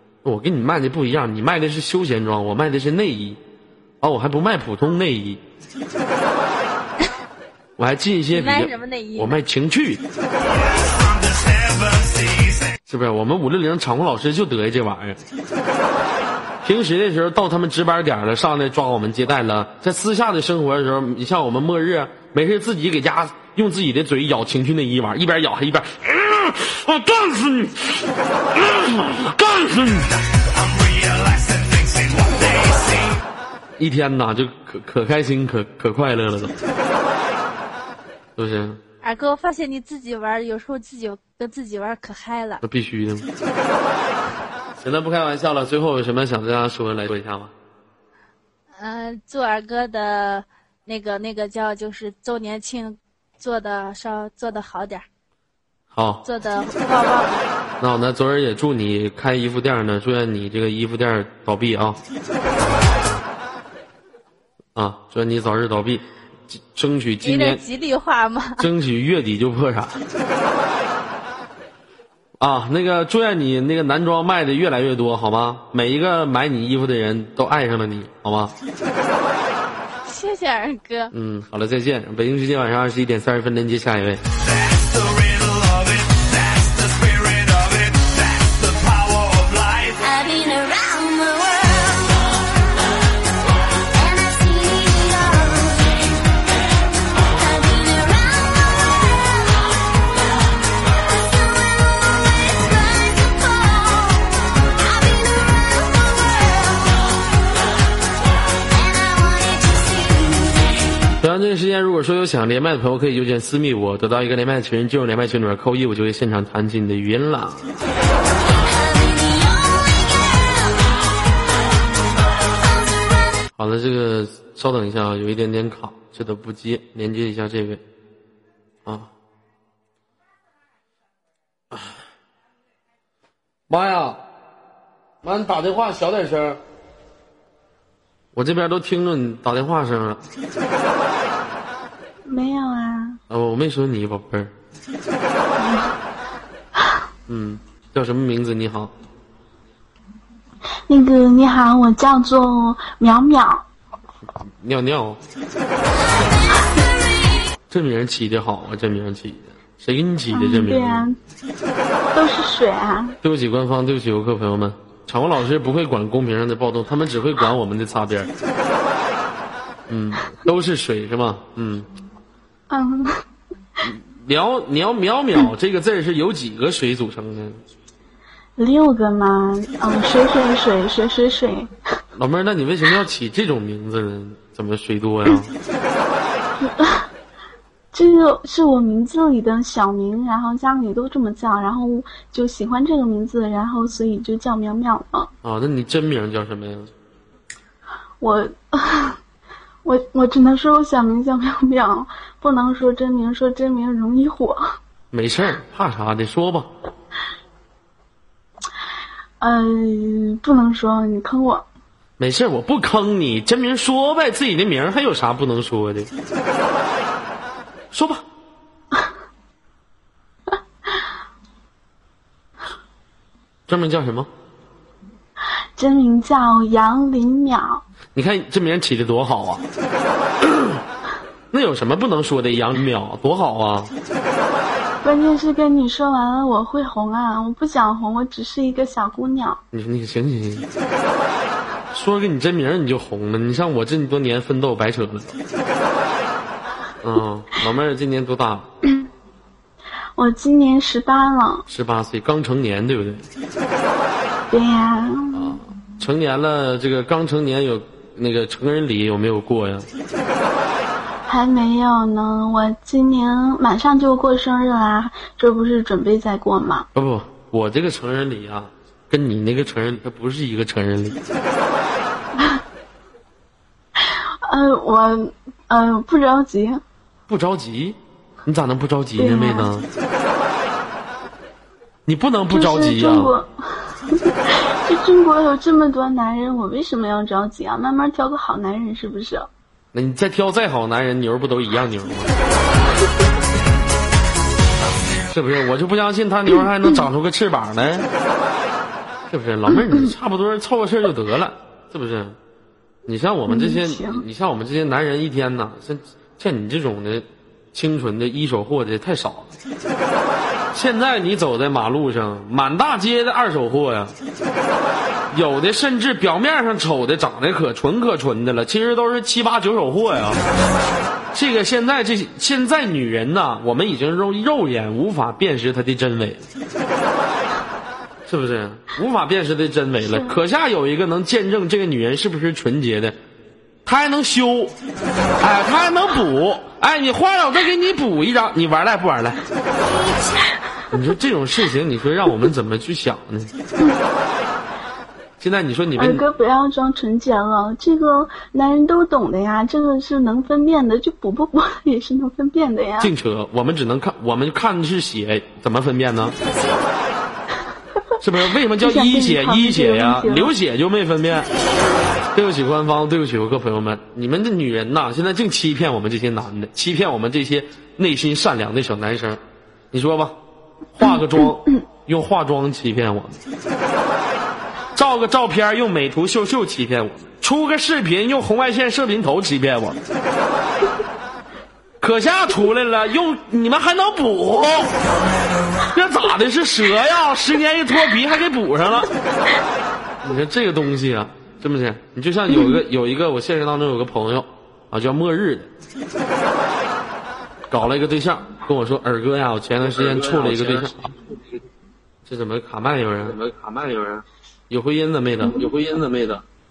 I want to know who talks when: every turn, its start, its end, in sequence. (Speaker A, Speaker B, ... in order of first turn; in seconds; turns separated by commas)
Speaker A: 0.2-3.4, Speaker A: 4.0-5.4, Speaker A: 7.8-10.0, Speaker B: 8.3-9.4, Speaker C: 10.4-12.7, Speaker A: 12.9-15.2, Speaker A: 16.6-30.1, Speaker C: 30.3-33.1, Speaker A: 33.8-36.6, Speaker A: 38.4-38.8, Speaker B: 39.0-42.6, Speaker A: 42.6-43.3, Speaker A: 44.8-47.5, Speaker B: 48.8-55.0, Speaker A: 55.9-56.2, Speaker B: 56.2-57.5, Speaker A: 57.8-62.0, Speaker A: 64.7-67.6, Speaker B: 67.2-68.7, Speaker A: 68.6-70.0, Speaker A: 72.4-78.5, Speaker B: 80.0-81.1, Speaker A: 81.1-84.2, Speaker C: 84.4-90.1, Speaker D: 90.0-92.4, Speaker D: 93.9-96.1, Speaker D: 97.1-99.8, Speaker D: 101.0-107.3, Speaker D: 108.7-110.9, Speaker A: 111.2-117.8, Speaker D: 118.6-120.9, Speaker D: 122.5-123.4, Speaker A: 123.6-127.8, Speaker A: 128.8-129.1, Speaker A: 133.7-134.2, Speaker A: 135.2-136.6, Speaker A: 138.3-140.2, Speaker E: 142.2-143.2, Speaker A: 143.3-144.5, Speaker E: 145.6-146.0, Speaker A: 147.3-148.9, Speaker E: 150.9-153.7, Speaker A: 154.3-155.2, Speaker A: 157.7-161.1, Speaker E: 160.3-161.2, Speaker E: 162.1-163.2, Speaker A: 163.2-168.3, Speaker A: 169.9-171.9, Speaker E: 172.7-173.2, Speaker A: 173.8-177.6, Speaker E: 178.6-181.7, Speaker A: 182.1-185.5, Speaker E: 186.6-187.1, Speaker E: 187.9-195.3, Speaker A: 195.4-196.9, Speaker E: 198.2-199.2, Speaker E: 199.8-204.8, Speaker A: 205.1-206.7, Speaker E: 209.4-211.7, Speaker A: 212.2-216.1, Speaker A: 217.9-218.2, Speaker A: 223.7-224.3, Speaker E: 225.8-227.8, Speaker A: 228.1-229.7, Speaker A: 230.4-230.8, Speaker A: 231.5-233.9, Speaker E: 235.0-239.6, Speaker A: 239.7-240.7, Speaker A: 241.9-245.4, Speaker A: 247.0-248.7, Speaker E: 250.2-251.7, Speaker A: 251.7-253.3, Speaker E: 254.5-255.6, Speaker A: 255.3-259.9, Speaker E: 261.3-266.9, Speaker A: 266.9-271.2, Speaker E: 272.4-272.6, Speaker E: 274.0-276.8, Speaker A: 277.3-279.9, Speaker E: 279.2-279.7, Speaker A: 282.1-283.3, Speaker E: 282.5-289.5, Speaker A: 289.9-292.3, Speaker A: 295.3-298.1, Speaker A: 299.3-302.4, Speaker A: 303.1-309.6, Speaker E: 303.5-304.2, Speaker A: 310.7-314.2, Speaker A: 315.3-320.4, Speaker A: 321.3-326.5, Speaker A: 328.2-333.2, Speaker A: 333.8-334.8, Speaker A: 335.4-339.4, Speaker D: 339.9-340.2, Speaker A: 340.9-343.5, Speaker A: 345.4-346.2, Speaker E: 345.9-353.1, Speaker A: 353.0-356.4, Speaker A: 358.2-361.5, Speaker E: 358.8-360.5, Speaker A: 362.3-370.4, Speaker A: 370.9-373.4, Speaker A: 374.9-380.0, Speaker A: 382.0-384.9, Speaker A: 385.9-389.1, Speaker A: 390.2-395.7, Speaker A: 397.7-401.1, Speaker A: 402.2-406.4, Speaker E: 405.4-405.7